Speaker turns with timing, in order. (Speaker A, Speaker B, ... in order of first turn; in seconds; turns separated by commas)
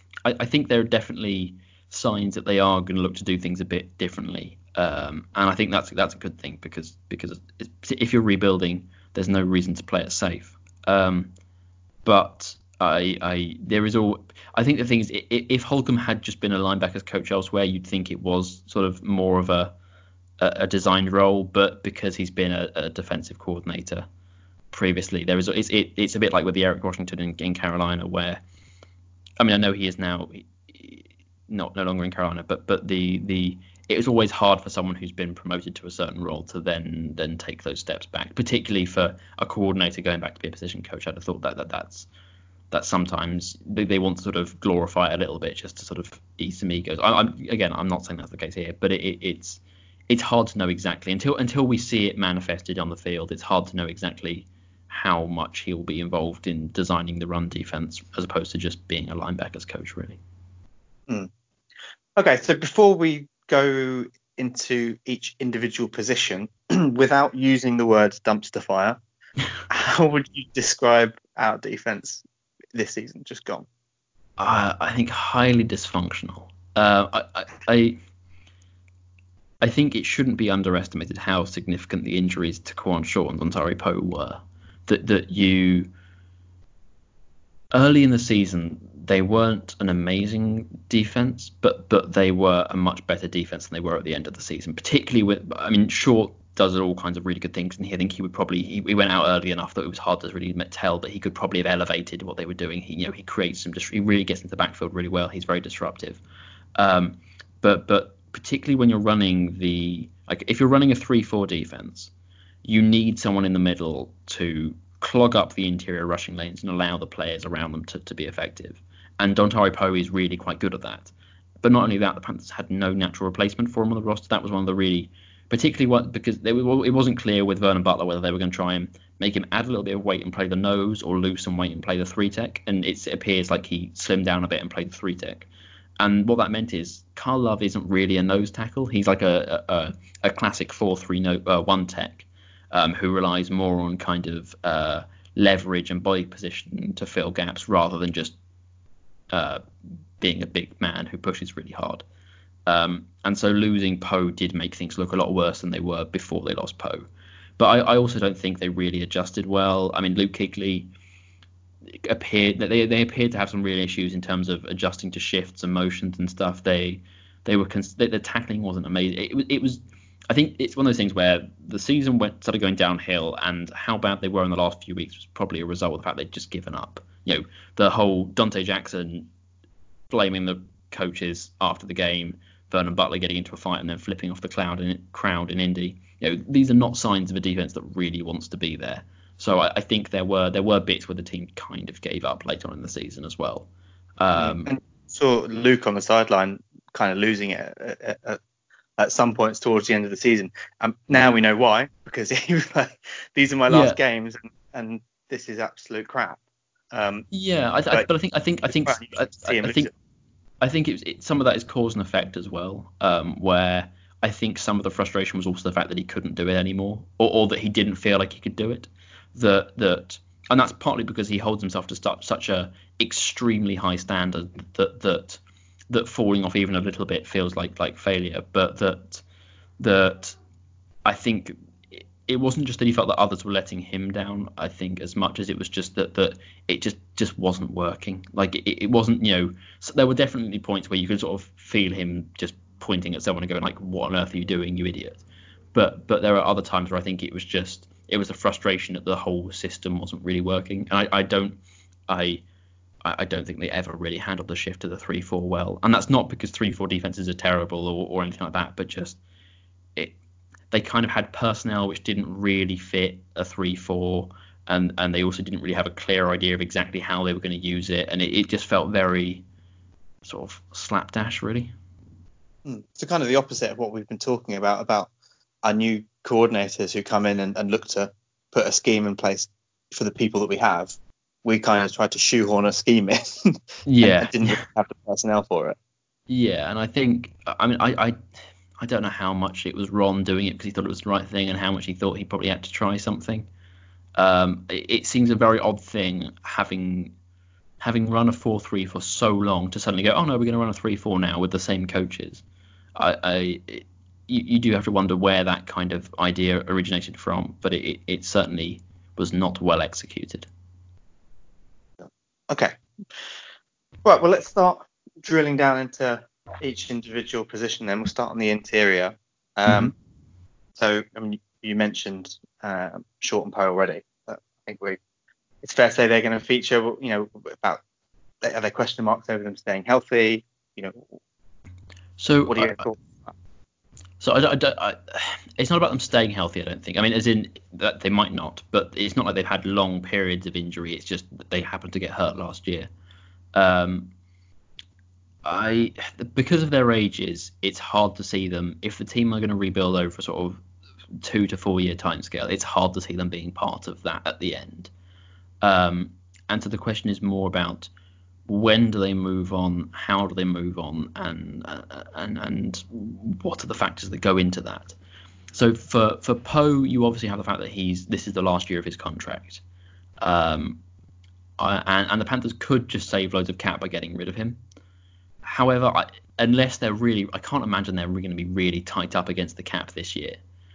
Speaker A: 0.2-11.3, Speaker A: 12.0-19.7, Speaker A: 20.4-24.1, Speaker A: 24.7-28.4, Speaker A: 29.4-42.1, Speaker A: 42.7-60.2, Speaker B: 62.1-69.0, Speaker B: 69.7-73.7, Speaker A: 74.4-78.0, Speaker A: 79.6-85.9, Speaker A: 87.7-106.2, Speaker A: 106.8-112.1, Speaker A: 112.6-121.1, Speaker A: 121.6-135.5, Speaker A: 136.0-148.4, Speaker A: 149.3-149.6, Speaker A: 150.2-152.0, Speaker A: 152.7-157.1, Speaker A: 157.6-160.9, Speaker A: 161.9-179.3, Speaker A: 180.1-193.7, Speaker A: 194.2-194.7, Speaker B: 194.4-198.4, Speaker B: 199.0-206.4, Speaker A: 203.7-204.0, Speaker B: 206.9-207.2, Speaker A: 207.3-209.9, Speaker B: 208.7-209.9, Speaker A: 210.6-229.2, Speaker A: 229.8-230.4, Speaker A: 231.0-245.2, Speaker A: 245.7-252.4, Speaker A: 253.0-259.2, Speaker A: 260.7-269.4, Speaker A: 270.2-271.7, Speaker B: 272.6-275.1, Speaker B: 275.6-285.8, Speaker A: 283.9-284.6, Speaker A: 286.3-288.2, Speaker A: 288.8-293.5, Speaker A: 294.1-297.1, Speaker A: 297.8-302.4, Speaker A: 303.0-310.5, Speaker B: 312.0-312.8, Speaker B: 314.0-319.9, Speaker A: 319.6-319.9, Speaker B: 320.8-325.0, Speaker B: 325.6-327.8, Speaker B: 328.4-331.1, Speaker A: 332.2-332.9, Speaker B: 332.5-333.3, Speaker A: 334.2-342.9, Speaker A: 343.5-344.1, Speaker A: 345.4-350.6, Speaker A: 351.2-354.9, Speaker A: 355.6-357.9, Speaker A: 358.5-365.0, Speaker A: 365.5-369.6, Speaker A: 370.2-370.8, Speaker A: 371.6-374.6, Speaker A: 375.4-380.4